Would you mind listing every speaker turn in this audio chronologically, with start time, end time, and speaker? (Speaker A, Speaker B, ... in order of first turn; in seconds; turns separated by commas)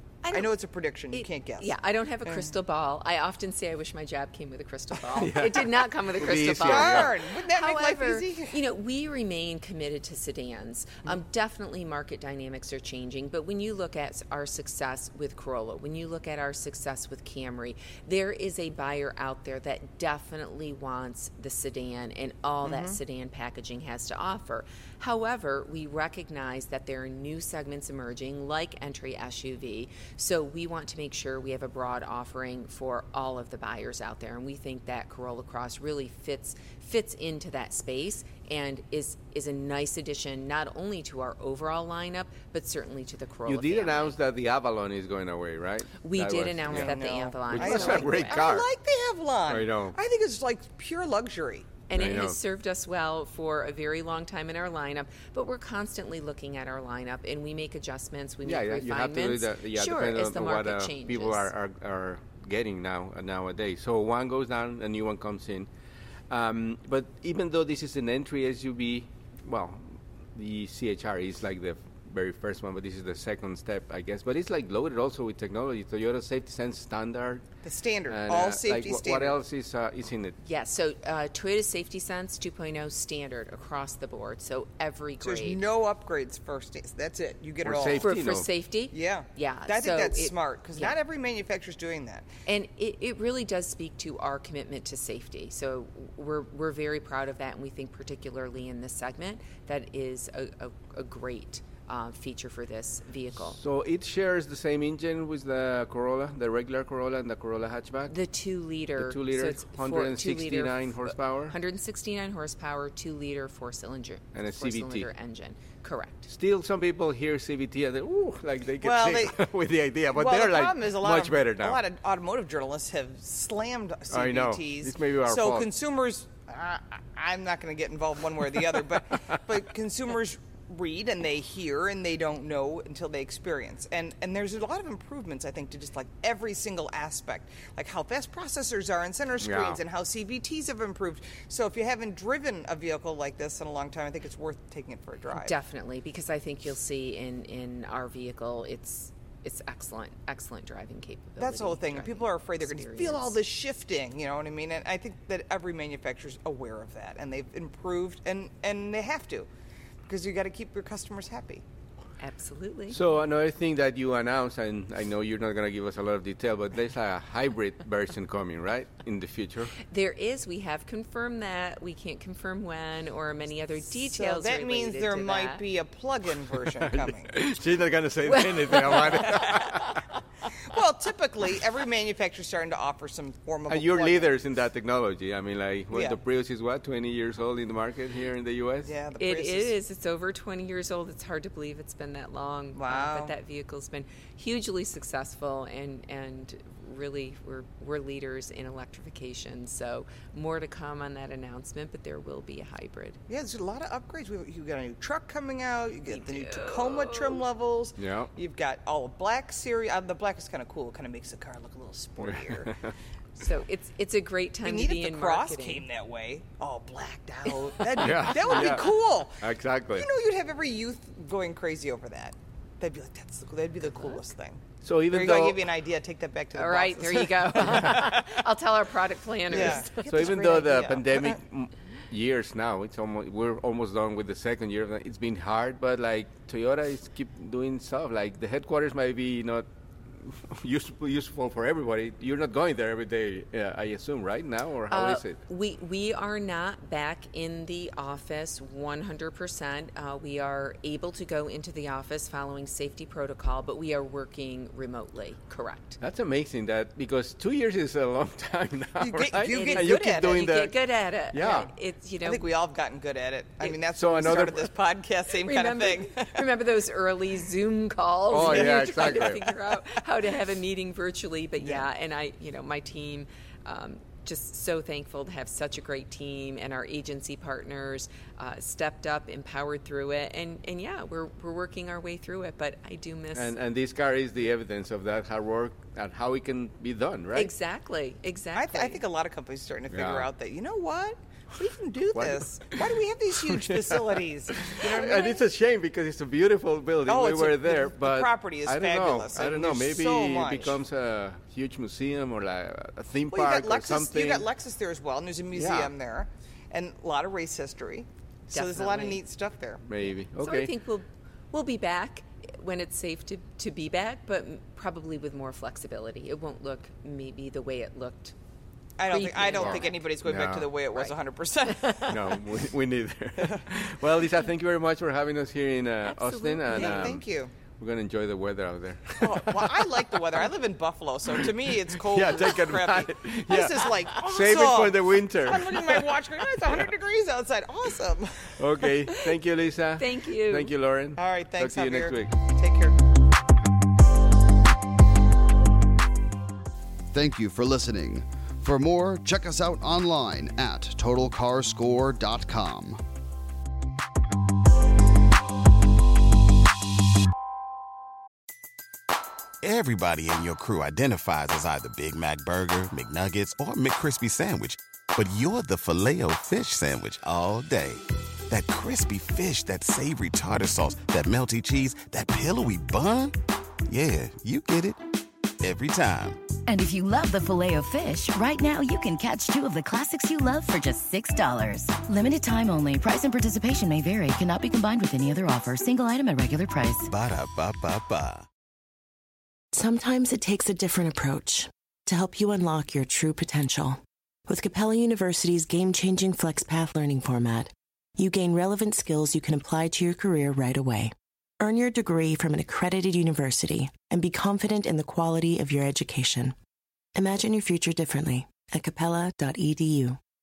Speaker A: 0.2-0.6, Speaker B: 0.3-2.5, Speaker A: 1.1-44.2, Speaker C: 5.2-7.1, Speaker B: 6.3-8.6, Speaker B: 22.6-23.0, Speaker C: 43.5-48.7, Speaker A: 46.0-48.4, Speaker B: 46.7-51.8, Speaker C: 49.5-50.0, Speaker A: 51.9-61.5, Speaker C: 51.9-52.4, Speaker C: 58.4-65.7, Speaker C: 66.3-77.4, Speaker B: 77.6-79.4, Speaker C: 78.1-80.3, Speaker A: 80.4-85.6, Speaker B: 85.2-88.1, Speaker C: 87.6-88.5, Speaker A: 88.0-91.0, Speaker B: 88.9-92.3, Speaker A: 92.5-103.6, Speaker C: 103.4-108.1, Speaker A: 108.1-116.3, Speaker C: 109.0-111.5, Speaker C: 114.3-115.1, Speaker C: 116.3-121.8, Speaker B: 118.8-119.4, Speaker B: 120.1-145.5, Speaker C: 124.1-125.7, Speaker C: 139.4-139.8, Speaker A: 145.3-153.3, Speaker B: 151.4-159.5, Speaker B: 160.1-161.6, Speaker A: 162.2-163.0, Speaker C: 162.9-169.7, Speaker A: 169.9-175.6, Speaker B: 173.9-177.3, Speaker C: 176.8-180.0, Speaker A: 178.5-179.1, Speaker B: 180.7-184.4, Speaker C: 183.7-188.9, Speaker B: 185.9-186.2, Speaker B: 188.8-189.7, Speaker A: 189.2-203.2, Speaker B: 192.7-193.3, Speaker B: 203.3-212.7, Speaker A: 206.1-207.4, Speaker C: 208.0-208.3, Speaker C: 212.2-212.9, Speaker A: 213.4-215.8, Speaker B: 214.6-228.2, Speaker C: 218.0-218.9, Speaker C: 219.4-220.1, Speaker C: 224.8-225.7, Speaker A: 226.5-230.3, Speaker C: 227.6-227.9, Speaker B: 229.5-231.4, Speaker C: 229.5-245.4, Speaker A: 244.9-256.0, Speaker C: 256.0-261.7, Speaker B: 259.0-260.4, Speaker A: 259.5-262.4, Speaker B: 262.2-266.4, Speaker C: 263.9-264.7, Speaker A: 265.4-283.6, Speaker C: 268.3-269.4, Speaker B: 268.4-269.4, Speaker B: 271.6-271.9, Speaker C: 283.3-287.5, Speaker A: 287.3-289.0, Speaker B: 288.5-295.5, Speaker C: 289.9-290.3, Speaker C: 292.1-292.9, Speaker C: 293.4-304.5, Speaker B: 297.0-300.8, Speaker B: 303.3-310.1, Speaker C: 305.5-305.9, Speaker A: 308.5-309.2, Speaker C: 309.8-310.7, Speaker A: 310.4-318.3, Speaker B: 319.0-322.1, Speaker A: 319.1-320.1, Speaker C: 319.5-320.7, Speaker A: 321.6-322.2, Speaker C: 322.1-327.2, Speaker A: 326.0-327.1, Speaker B: 326.7-327.5, Speaker C: 327.8-330.5, Speaker B: 329.1-338.6, Speaker C: 331.4-336.2, Speaker C: 338.6-342.3, Speaker A: 340.0-340.7, Speaker B: 341.1-342.9, Speaker D: 347.1-353.0, Speaker E: 359.6-373.3, Speaker E: 373.9-375.0, Speaker E: 375.6-376.5, Speaker F: 376.7-387.1, Speaker E: 387.0-388.5, Speaker G: 389.7-406.6, Speaker G: 407.1-410.2